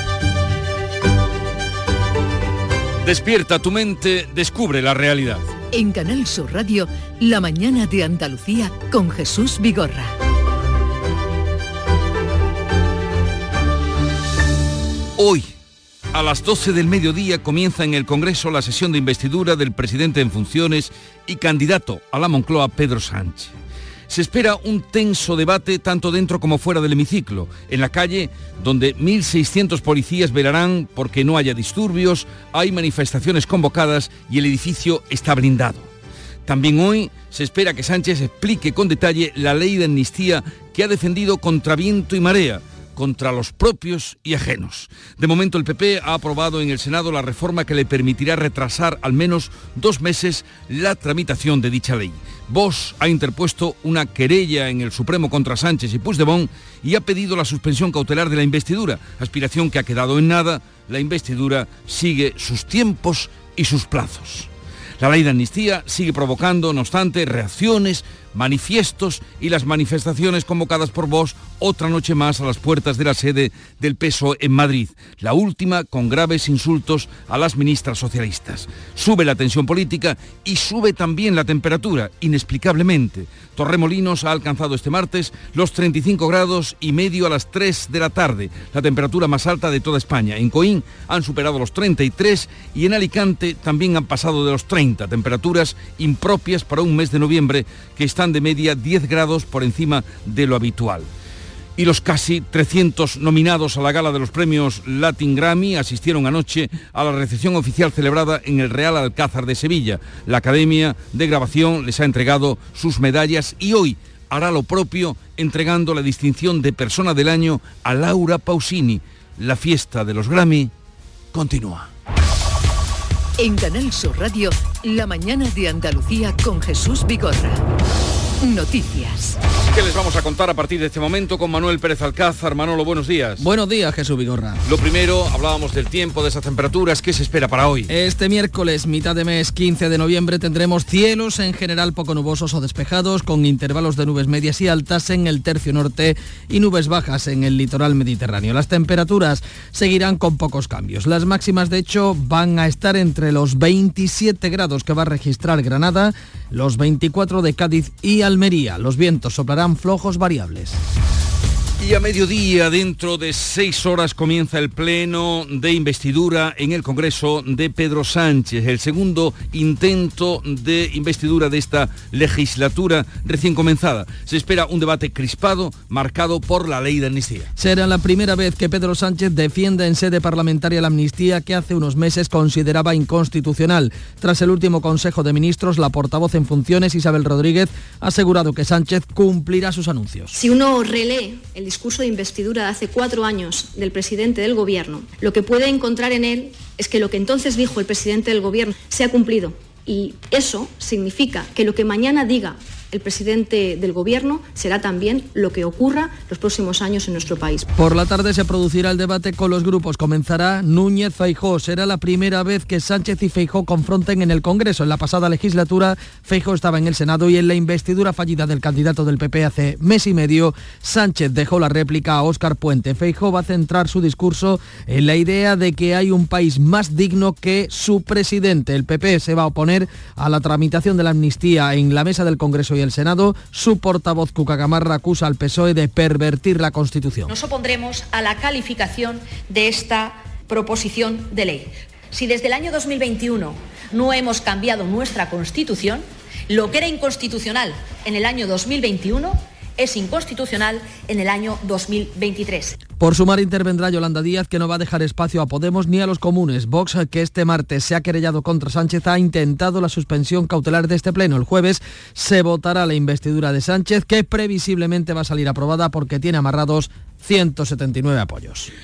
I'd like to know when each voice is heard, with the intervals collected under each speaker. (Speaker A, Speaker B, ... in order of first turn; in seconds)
Speaker A: 3.0-5.5, 15.2-15.5, 16.1-23.5, 24.1-35.9, 36.5-64.5, 65.0-101.1, 101.8-120.7, 121.3-121.9, 129.6-133.4, 134.6-137.9, 161.8-177.5
Speaker B: 5.7-10.1, 123.4-127.6, 128.4-129.4
Speaker C: 133.4-134.6, 137.9-160.8, 177.6-190.3, 207.8-237.3, 253.0-268.7
Speaker D: 190.3-207.7
Speaker E: 237.3-252.8